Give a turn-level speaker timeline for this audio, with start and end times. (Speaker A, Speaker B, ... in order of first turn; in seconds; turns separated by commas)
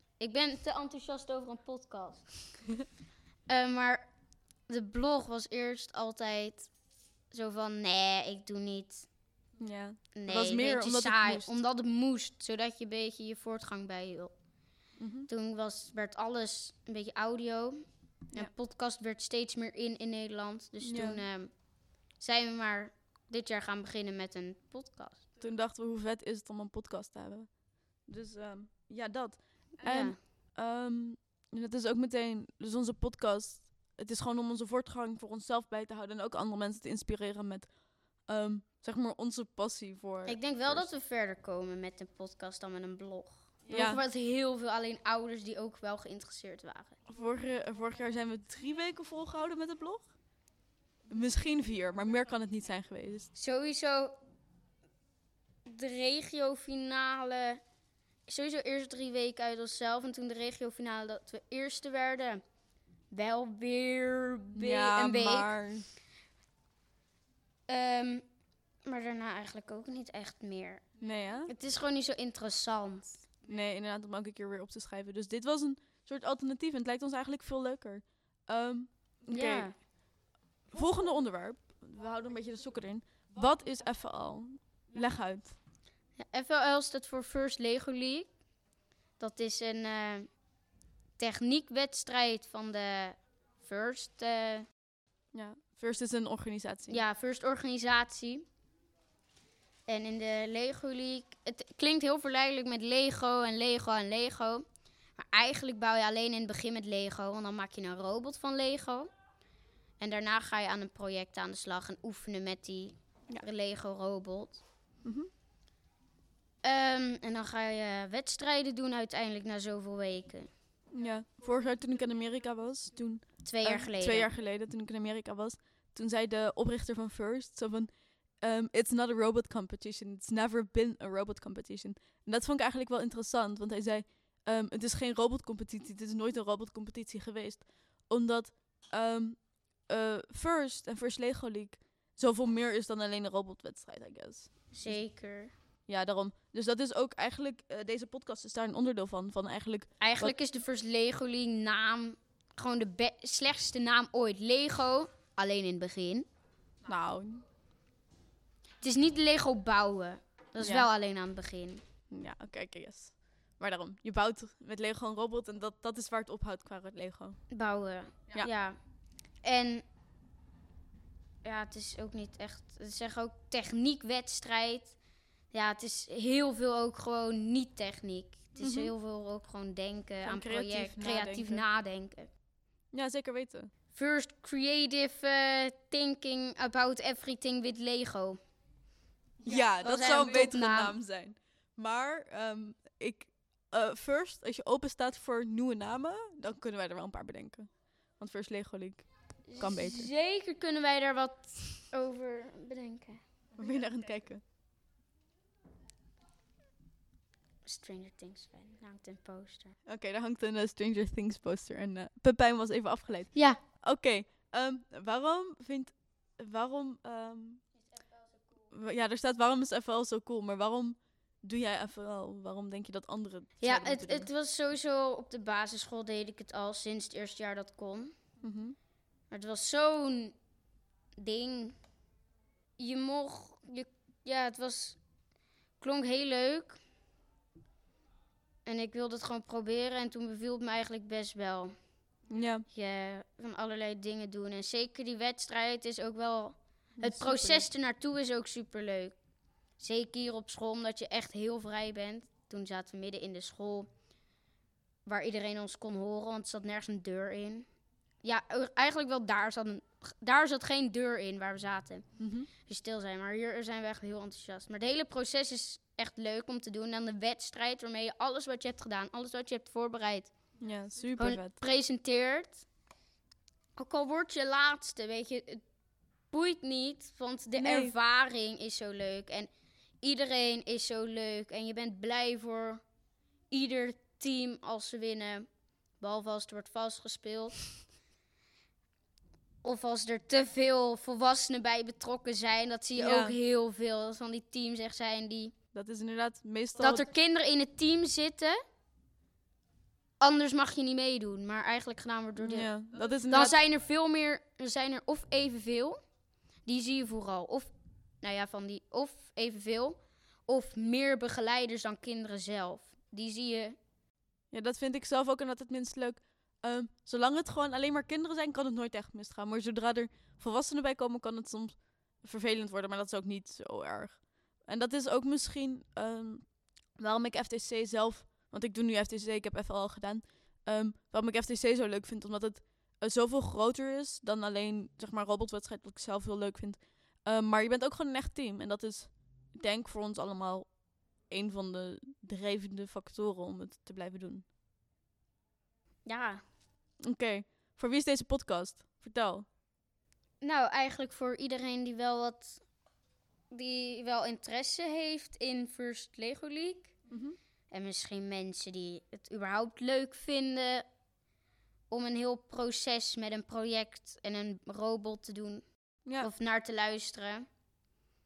Speaker A: 0.2-2.3, Speaker A: 3.5-4.0, Speaker A: 4.7-6.7, Speaker A: 7.3-9.1, Speaker B: 9.6-11.5, Speaker A: 10.1-14.3, Speaker B: 15.0-15.3, Speaker A: 15.3-17.8, Speaker A: 18.3-21.5, Speaker B: 20.8-21.2, Speaker A: 22.2-25.2, Speaker B: 25.4-27.5, Speaker B: 28.1-37.7, Speaker A: 29.8-30.1, Speaker B: 38.2-40.8, Speaker A: 40.2-46.9, Speaker B: 43.7-44.0, Speaker B: 47.1-50.1, Speaker B: 51.1-53.3, Speaker A: 53.3-54.2, Speaker A: 55.6-57.6, Speaker A: 58.3-62.4, Speaker A: 63.1-65.5, Speaker B: 64.5-65.9, Speaker A: 67.7-68.2, Speaker A: 68.8-70.8, Speaker B: 71.0-71.5, Speaker A: 71.5-73.2, Speaker B: 73.5-79.7, Speaker A: 79.3-79.7, Speaker B: 80.7-85.5, Speaker A: 86.2-88.3, Speaker A: 89.2-90.3, Speaker A: 91.2-94.7, Speaker B: 95.3-97.0, Speaker A: 96.9-98.5, Speaker A: 99.9-104.6, Speaker A: 105.2-109.1, Speaker A: 110.0-114.6, Speaker B: 115.0-115.3, Speaker A: 116.6-120.5, Speaker B: 120.9-145.0, Speaker A: 123.4-124.3, Speaker A: 144.7-145.5, Speaker B: 145.9-150.3, Speaker A: 150.0-156.3, Speaker B: 156.8-157.4, Speaker A: 158.8-161.8, Speaker B: 160.6-160.9, Speaker B: 162.1-167.4, Speaker A: 167.5-168.8, Speaker A: 169.4-169.8, Speaker A: 171.4-174.9, Speaker A: 175.5-182.3, Speaker B: 178.6-178.9, Speaker B: 180.2-181.6, Speaker B: 182.9-183.7, Speaker A: 183.9-188.4, Speaker B: 189.4-200.1, Speaker A: 189.4-190.9, Speaker A: 199.5-203.2, Speaker B: 203.6-204.4, Speaker A: 207.7-209.8, Speaker B: 209.9-217.6, Speaker A: 213.3-213.6, Speaker B: 218.7-224.3, Speaker A: 223.6-228.1, Speaker B: 228.4-228.8, Speaker A: 229.3-230.3, Speaker A: 231.2-231.8, Speaker A: 232.8-235.0, Speaker A: 235.8-236.8, Speaker A: 238.7-241.7, Speaker B: 242.3-242.6, Speaker A: 242.7-249.1, Speaker B: 247.0-247.6, Speaker A: 249.8-253.9, Speaker A: 255.1-257.6, Speaker A: 258.2-262.1, Speaker B: 262.2-262.5, Speaker A: 262.7-270.3, Speaker B: 270.6-271.5, Speaker A: 271.2-272.6, Speaker A: 273.8-275.6, Speaker A: 276.3-279.5, Speaker B: 277.6-277.9, Speaker A: 280.0-282.8, Speaker A: 283.5-285.4, Speaker A: 286.0-287.6, Speaker A: 289.6-295.5, Speaker B: 292.9-293.4, Speaker B: 295.7-297.1, Speaker A: 296.8-298.6, Speaker A: 300.2-302.7, Speaker B: 302.4-303.6, Speaker A: 303.3-306.0, Speaker A: 306.6-313.8, Speaker B: 314.5-340.7, Speaker B: 341.3-344.4, Speaker A: 346.1-346.4, Speaker B: 347.0-349.4, Speaker A: 350.4-352.6, Speaker A: 353.5-356.9, Speaker B: 357.1-357.4, Speaker A: 357.7-360.8, Speaker A: 361.9-365.6, Speaker A: 366.2-367.4